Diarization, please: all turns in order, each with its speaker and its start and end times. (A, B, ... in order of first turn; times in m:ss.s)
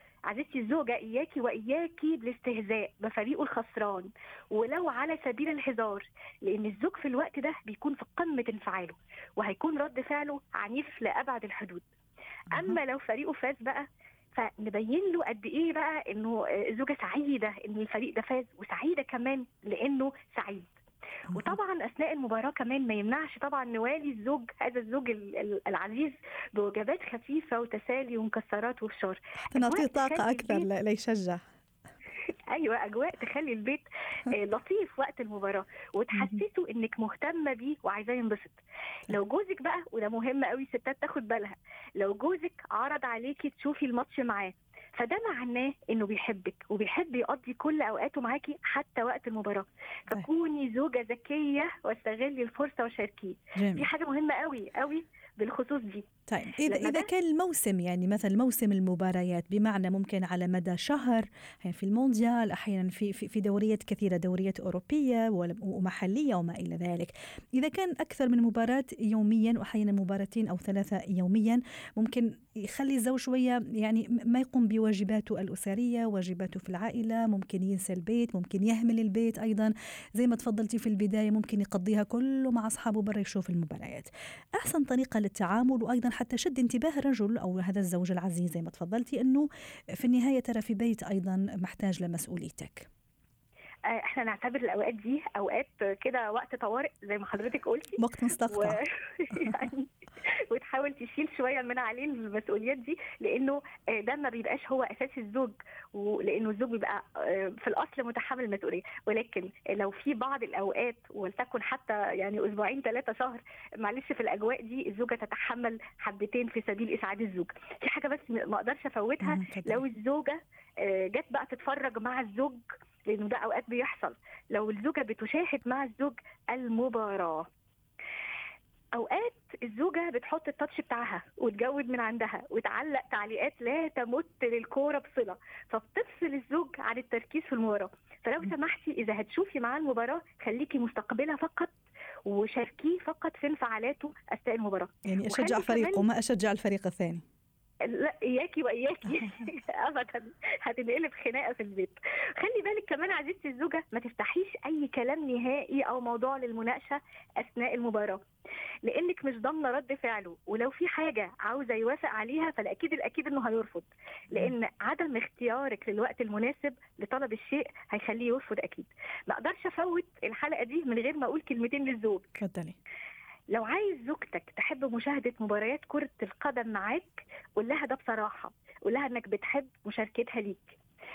0:00.3-0:11.8 A
0:12.5-0:20.7 A
0:12.5-0:12.8 B
0:21.3-0:21.6 B
0:21.3-0:30.7 A
0:29.4-0:31.4 B
0:32.5-0:56.1 A
0:36.1-0:36.4 B
0:53.6-0:53.9 B
0:56.3-1:29.5 B
0:56.6-0:57.1 A
1:30.0-1:32.9 B
1:33.9-2:07.5 A
1:38.0-1:38.8 B
1:59.2-1:59.8 B
2:09.0-2:21.7 A
2:22.3-2:26.1 A
2:25.1-2:27.2 B
2:27.8-2:38.2 A
2:38.8-2:52.4 A
2:52.4-2:52.8 B
2:53.5-3:00.8 A